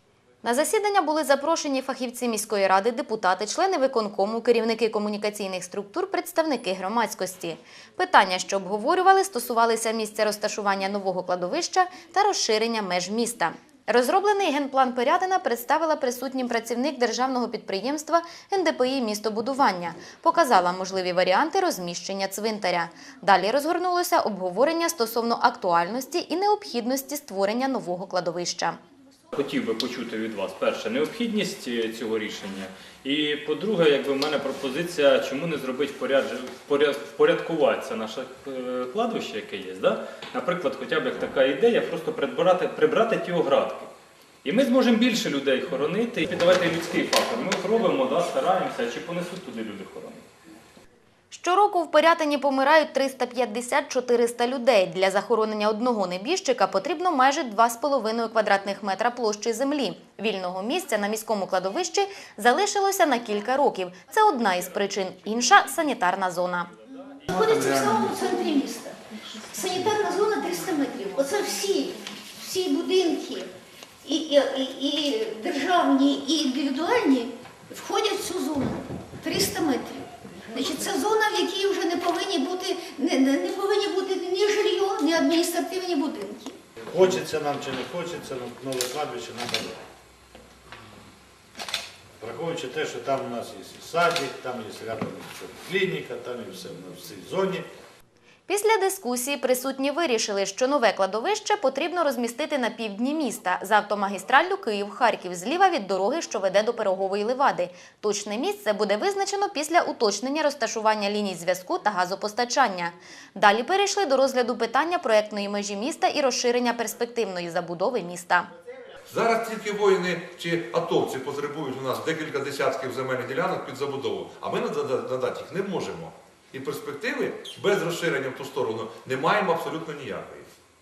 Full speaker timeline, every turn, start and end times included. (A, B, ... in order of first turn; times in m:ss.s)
0:00.4-0:28.8 A
0:29.3-0:43.9 B
0:44.4-0:50.3 B
0:51.3-1:06.7 A
1:07.3-1:13.5 C
1:14.0-1:26.6 C
1:26.9-1:29.8 D
1:32.2-1:37.7 D
1:38.5-1:58.5 A
1:59.1-2:10.5 E